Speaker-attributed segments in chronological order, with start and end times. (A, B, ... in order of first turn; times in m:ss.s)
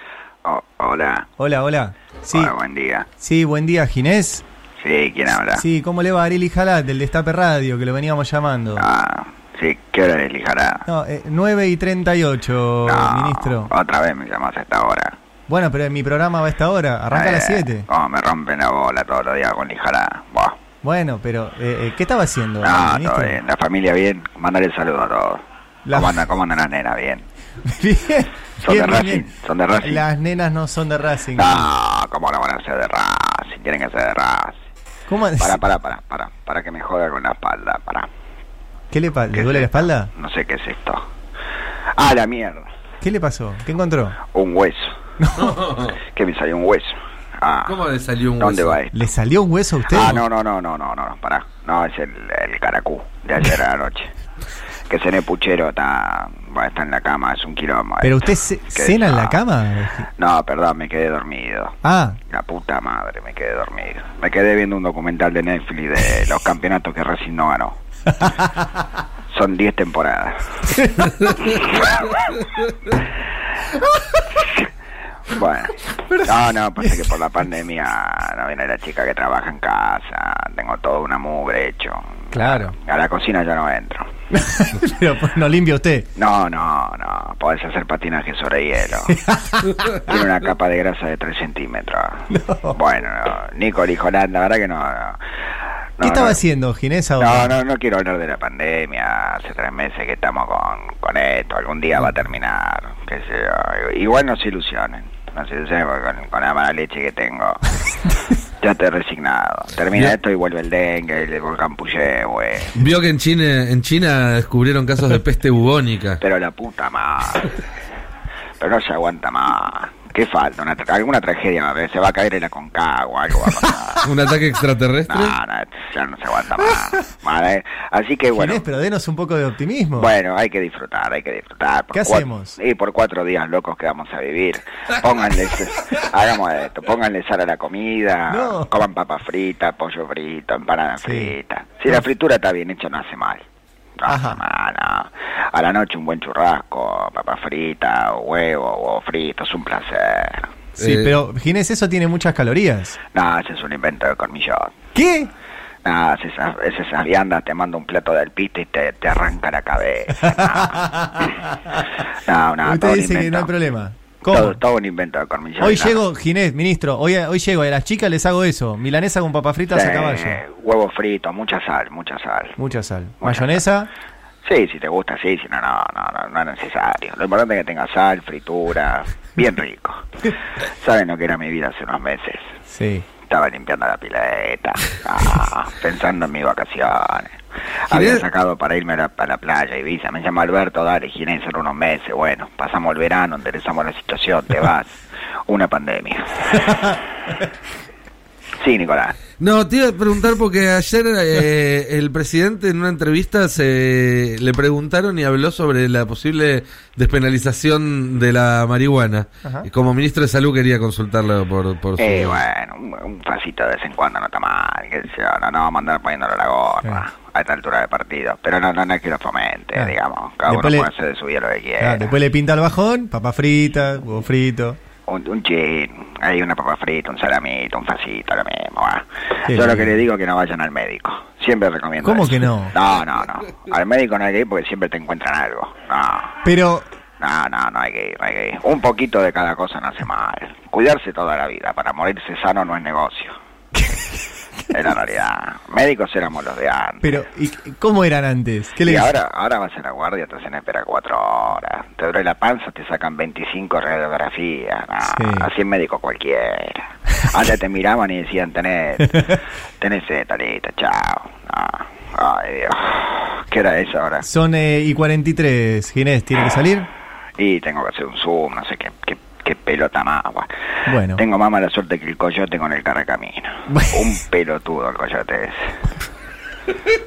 0:00.4-0:01.3 A
0:01.4-0:02.5 B
0:02.3-0:03.1 A
0:03.2-0:04.4 B
0:04.8-0:05.6 A
0:05.5-0:08.9 B
0:08.8-0:10.8 A
0:10.8-0:13.7 B
0:12.8-0:15.1 A
0:15.5-0:17.8 B
0:17.1-0:20.6 A
0:20.8-0:23.4 B
0:22.6-0:27.2 A
0:25.8-0:26.2 B
0:27.6-0:29.3 B
0:28.6-0:30.0 A
0:29.8-0:31.7 B
0:31.4-0:34.6 A
0:35.1-0:35.6 B
0:35.4-0:38.1 A
0:38.9-0:40.1 B
0:39.3-0:41.0 A
0:41.9-0:42.7 A
0:43.0-0:44.2 B
0:44.2-0:45.0 A
0:45.2-0:45.7 B
0:45.4-0:46.0 C
0:46.0-0:47.8 A
0:47.6-0:48.8 C
0:48.4-0:49.1 A
0:48.9-0:50.2 B
0:49.9-0:54.1 A
0:54.9-0:58.2 A
0:58.0-1:00.1 B
0:58.7-0:59.4 A
1:00.1-1:07.8 A
1:01.8-1:02.2 B
1:09.3-1:10.6 A
1:10.7-1:11.1 B
1:11.2-1:11.8 A
1:15.3-1:24.1 A
1:16.0-1:17.0 B
1:22.3-1:22.7 B
1:24.3-1:26.1 B
1:26.2-1:29.2 A
1:29.1-1:29.9 B
1:30.0-1:35.2 A
1:32.3-1:32.8 B
1:36.0-1:36.4 A
1:36.0-1:37.6 B
1:37.2-1:47.7 A
1:48.6-1:52.7 A
1:52.7-1:56.2 C
1:56.2-1:57.5 A
1:58.6-2:04.1 A
2:04.0-2:05.4 C
2:05.1-2:08.6 A
2:08.3-2:10.1 B
2:10.0-2:23.4 A
2:11.9-2:12.6 B
2:18.3-2:18.7 B
2:21.0-2:21.4 B
2:24.0-2:30.5 A
2:24.1-2:24.4 B
2:30.8-2:31.1 C
2:30.8-2:33.0 B
2:33.1-2:34.8 A
2:34.9-2:35.3 B
2:35.8-2:41.3 A
2:40.2-2:41.8 B
2:42.2-2:43.5 A
2:42.6-2:44.6 B
2:44.2-2:46.0 A
2:45.6-2:50.4 B
2:49.7-2:52.6 A
2:52.6-2:53.9 B
2:53.2-2:53.6 A
2:54.4-3:00.1 A
3:00.6-3:02.5 A
3:02.7-3:03.0 B
3:03.2-3:07.4 A
3:07.9-3:16.6 A
3:07.9-3:08.2 C
3:16.6-3:16.9 B
3:18.6-3:19.2 A
3:19.4-3:32.4 C
3:29.4-3:29.7 B
3:32.0-3:42.1 A
3:40.5-3:40.9 B
3:41.8-3:44.8 B
3:45.0-3:56.4 A
3:49.4-3:49.9 B
3:52.0-3:52.7 B
3:56.4-3:56.9 B
3:57.2-4:03.4 A
4:03.8-4:04.1 B
4:04.7-4:07.1 A
4:07.0-4:09.2 B
4:08.8-4:24.2 A
4:15.0-4:15.5 B
4:24.2-4:26.9 B
4:27.4-4:30.5 A
4:30.8-4:31.2 B
4:31.1-4:35.7 A
4:33.7-4:34.1 B